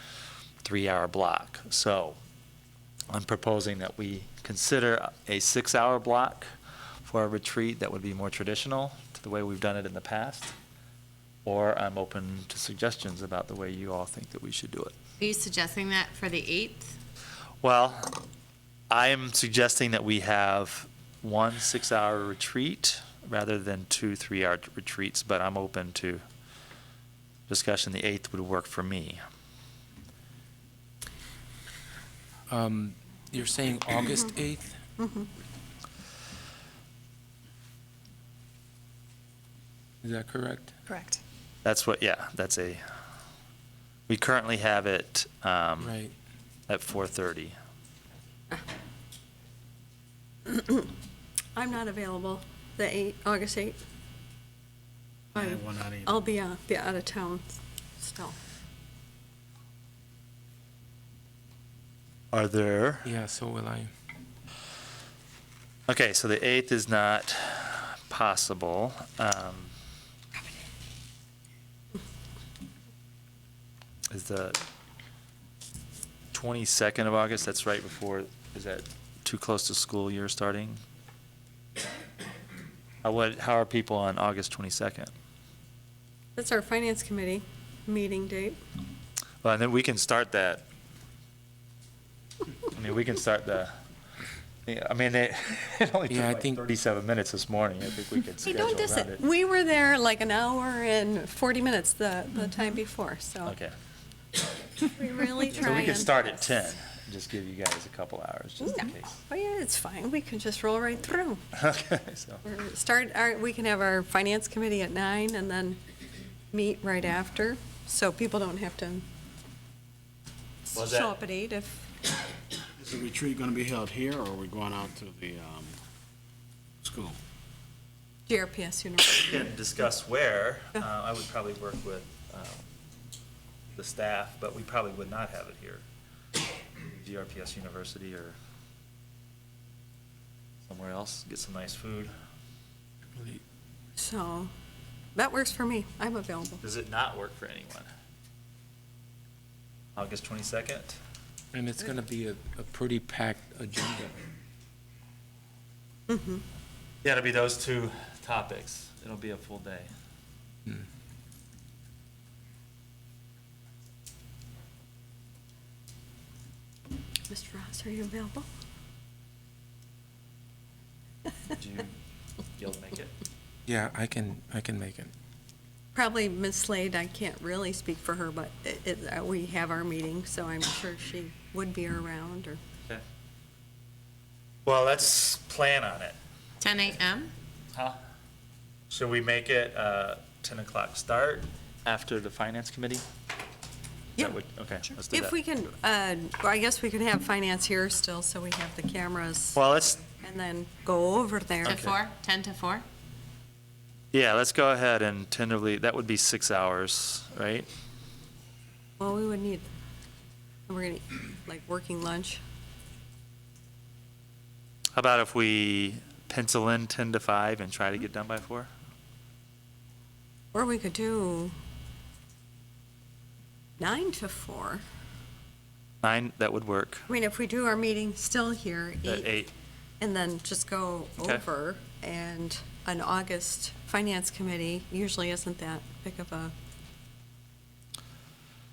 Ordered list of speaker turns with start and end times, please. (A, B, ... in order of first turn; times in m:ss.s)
0:00.6-0:02.2 A
0:03.1-0:06.5 A
0:07.0-0:10.5 A
0:11.4-0:15.0 A
0:15.2-0:16.9 B
0:17.6-0:18.2 A
0:18.9-0:26.2 A
0:27.5-0:29.2 A
0:32.5-0:34.8 C
0:35.0-0:35.3 D
0:40.0-0:40.8 C
0:40.9-0:41.2 D
0:41.6-0:42.8 A
0:44.1-0:45.9 A
0:45.8-0:46.1 C
0:46.7-0:47.6 A
0:50.5-0:50.9 D
0:51.6-0:53.8 D
0:55.3-0:58.4 D
0:55.4-0:56.2 E
1:02.3-1:03.1 A
1:03.0-1:03.9 C
1:05.9-1:09.7 A
1:14.1-1:14.6 A
1:16.3-1:20.8 A
1:23.0-1:25.1 A
1:26.4-1:28.6 D
1:29.4-1:30.6 A
1:32.7-1:33.8 A
1:34.7-1:39.2 A
1:36.1-1:36.6 C
1:38.4-1:43.6 D
1:43.5-1:43.7 A
1:44.8-1:46.4 D
1:45.5-1:49.2 A
1:48.6-1:51.4 D
1:51.6-1:52.4 A
1:52.4-1:55.8 D
1:56.5-1:59.0 D
2:00.7-2:01.9 D
2:00.7-2:01.2 A
2:02.8-2:05.8 E
2:06.8-2:07.2 E
2:08.3-2:09.3 D
2:09.1-2:12.6 A
2:13.8-2:15.8 A
2:17.0-2:18.4 A
2:20.7-2:22.1 A
2:23.2-2:23.4 C
2:24.0-2:24.5 D
2:25.2-2:26.6 D
2:26.6-2:27.9 A
2:30.0-2:31.0 A
2:31.5-2:34.2 C
2:36.1-2:36.4 D
2:37.0-2:39.9 A
2:47.3-2:48.5 D
2:51.5-2:51.9 A
2:52.6-2:53.2 A
2:53.7-2:55.1 C
2:56.0-3:02.6 D
3:04.6-3:06.2 A
3:06.6-3:07.3 B
3:07.7-3:08.0 A
3:08.9-3:13.0 A
3:14.2-3:15.4 A
3:15.1-3:21.8 D
3:19.6-3:20.0 A
3:21.6-3:22.8 B
3:21.7-3:22.0 A
3:24.1-3:27.7 A
3:29.0-3:29.6 D
3:30.7-3:32.4 D
3:35.0-3:38.7 A
3:40.5-3:41.6 D
3:43.8-3:44.8 D
3:46.0-3:47.1 A
3:47.1-3:49.3 D
3:49.0-3:49.5 A
3:50.0-3:56.5 D